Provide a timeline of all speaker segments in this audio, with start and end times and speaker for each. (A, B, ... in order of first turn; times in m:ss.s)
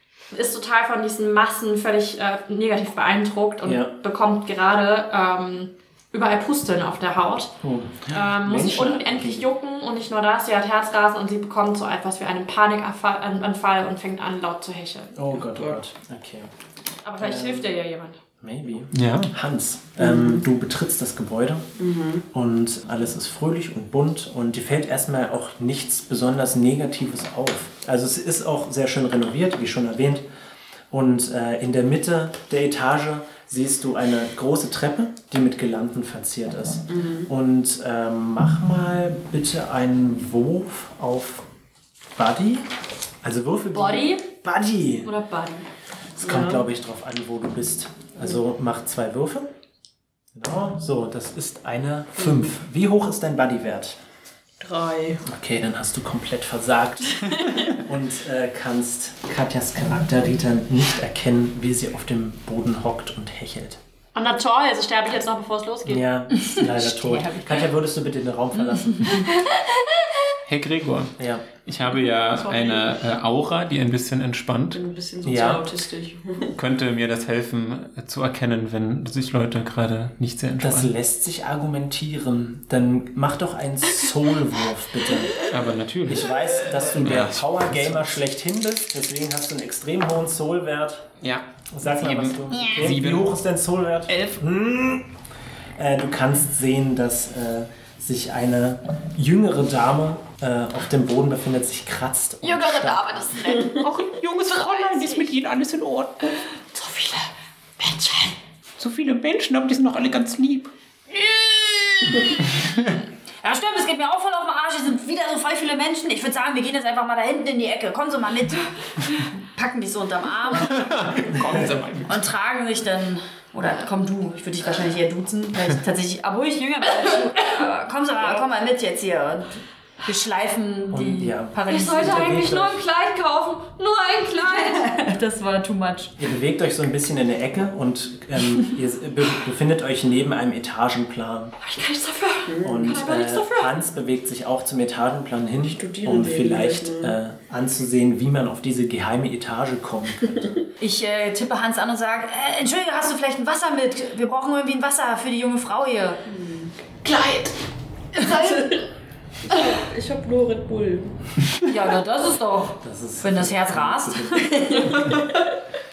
0:00.3-0:07.6 A
0:03.6-0:03.9 B
0:07.6-0:09.5 B
0:08.1-0:15.2 A
0:15.2-0:16.5 B
0:15.4-0:15.8 C
0:17.0-0:18.2 A
0:17.2-0:17.7 B
0:18.4-0:21.7 B
0:18.9-0:19.3 D
0:20.0-0:20.4 C
0:21.8-0:22.2 C
0:22.3-0:30.2 B
0:30.9-0:41.4 B
0:36.9-0:37.3 C
0:42.1-0:42.7 B
0:43.2-0:45.1 B
0:43.8-0:44.2 E
0:45.1-0:45.6 E
0:46.2-0:49.5 B
0:46.2-0:46.6 C
0:50.3-0:54.0 B
0:54.6-0:55.2 C
0:55.2-1:03.8 B
0:57.2-0:57.6 C
1:04.1-1:06.0 A
1:05.8-1:09.3 B
1:06.4-1:07.7 E
1:08.5-1:09.3 E
1:09.2-1:10.1 A
1:10.4-1:14.8 D
1:11.2-1:11.4 B
1:12.3-1:13.1 C
1:14.7-1:16.5 C
1:15.2-1:15.7 B
1:16.5-1:20.9 D
1:20.6-1:25.4 B
1:25.4-1:26.3 D
1:26.1-1:31.1 B
1:26.9-1:28.2 D
1:31.2-1:33.4 D
1:31.7-1:35.1 B
1:34.1-1:34.4 D
1:35.8-1:43.5 B
1:42.5-1:43.7 A
1:43.7-1:46.3 D
1:44.5-1:45.2 A
1:46.7-1:47.2 A
1:47.8-1:48.3 A
1:48.8-1:50.7 D
1:51.2-1:52.8 E
1:52.1-1:53.0 D
1:53.4-2:01.1 E
2:00.6-2:02.2 D
2:01.4-2:01.8 B
2:02.0-2:12.5 E
2:10.9-2:12.8 B
2:11.6-2:15.1 A
2:14.5-2:16.2 E
2:16.2-2:21.5 B
2:21.6-2:23.7 A
2:22.5-2:22.9 C
2:22.6-2:30.4 B
2:25.6-2:27.2 C
2:30.8-2:36.2 E
2:36.2-2:37.5 C
2:38.2-2:38.8 C
2:39.4-2:41.1 C
2:41.6-2:44.7 E
2:42.8-2:44.8 B
2:44.6-2:45.4 C